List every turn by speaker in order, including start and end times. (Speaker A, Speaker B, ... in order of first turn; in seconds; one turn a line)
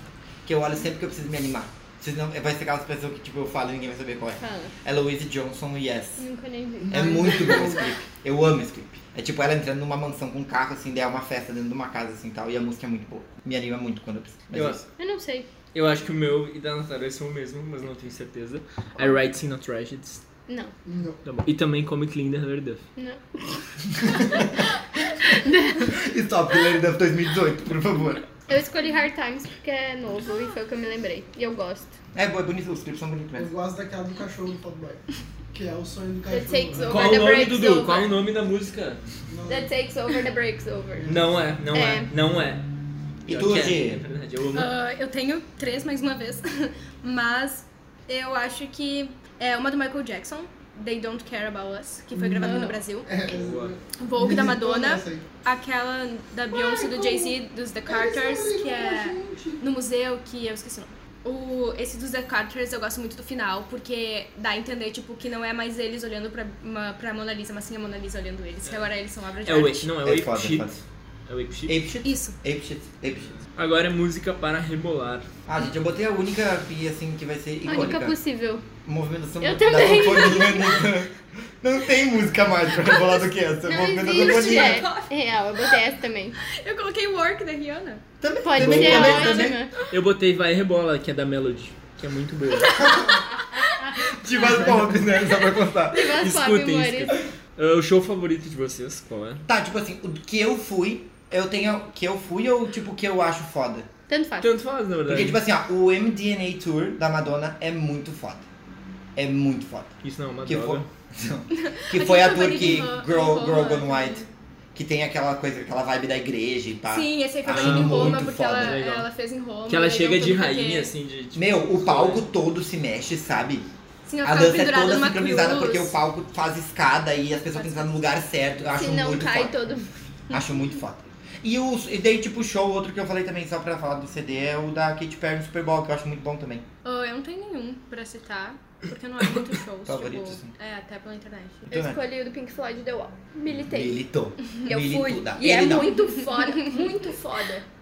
Speaker A: 0.5-6.2
Speaker B: 4.4-4.7
Speaker B: 6.2-7.8
Speaker C: 6.8-7.9
Speaker A: 6.9-14.8
Speaker D: 14.5-14.8
Speaker B: 15.0-15.5
Speaker D: 15.7-20.2
Speaker B: 20.5-20.7
Speaker C: 20.9-21.2
Speaker D: 21.2-22.8
Speaker B: 23.0-24.6
Speaker B: 25.2-26.0
Speaker A: 25.8-28.2
Speaker B: 28.5-31.9
Speaker E: 30.2-30.6
Speaker A: 32.1-33.5
Speaker C: 33.4-35.0
Speaker C: 35.5-37.3
Speaker B: 36.3-38.1
Speaker D: 36.8-39.0
Speaker C: 39.3-39.7
Speaker B: 39.5-41.1
Speaker D: 41.0-42.6
Speaker B: 41.7-42.1
Speaker A: 43.3-44.0
Speaker D: 43.3-44.7
Speaker E: 44.5-53.1
Speaker C: 52.1-55.2
Speaker B: 52.4-52.8
Speaker D: 53.3-53.8
Speaker E: 54.0-69.9
Speaker C: 56.5-57.3
Speaker C: 57.9-59.6
Speaker D: 69.4-71.8
Speaker A: 70.0-70.8
Speaker A: 71.7-73.4
Speaker E: 72.0-72.4
Speaker D: 73.6-75.3
Speaker A: 75.5-78.2
Speaker B: 77.7-78.7
Speaker A: 78.8-84.9
Speaker B: 79.4-80.9
Speaker B: 83.6-86.4
Speaker E: 84.0-85.8
Speaker E: 86.4-88.0
Speaker A: 88.2-89.6
Speaker B: 88.4-89.7
Speaker D: 88.6-92.9
Speaker E: 89.0-89.5
Speaker E: 92.6-94.4
Speaker A: 94.0-96.2
Speaker B: 95.9-97.2
Speaker D: 96.1-99.4
Speaker A: 99.5-103.9
Speaker B: 104.1-104.5
Speaker D: 104.4-105.4
Speaker A: 105.1-108.5
Speaker A: 109.2-118.8
Speaker D: 110.0-110.9
Speaker E: 111.5-114.3
Speaker E: 116.9-120.9
Speaker D: 117.5-119.1
Speaker D: 119.7-122.3
Speaker A: 121.3-123.7
Speaker E: 124.1-125.9
Speaker A: 124.2-129.6
Speaker E: 127.5-127.9
Speaker B: 128.8-130.4
Speaker A: 130.3-136.7
Speaker E: 136.8-141.7
Speaker A: 139.9-140.5
Speaker B: 141.7-144.0
Speaker A: 141.7-142.0
Speaker A: 143.5-145.9
Speaker B: 144.6-147.7
Speaker E: 145.5-146.8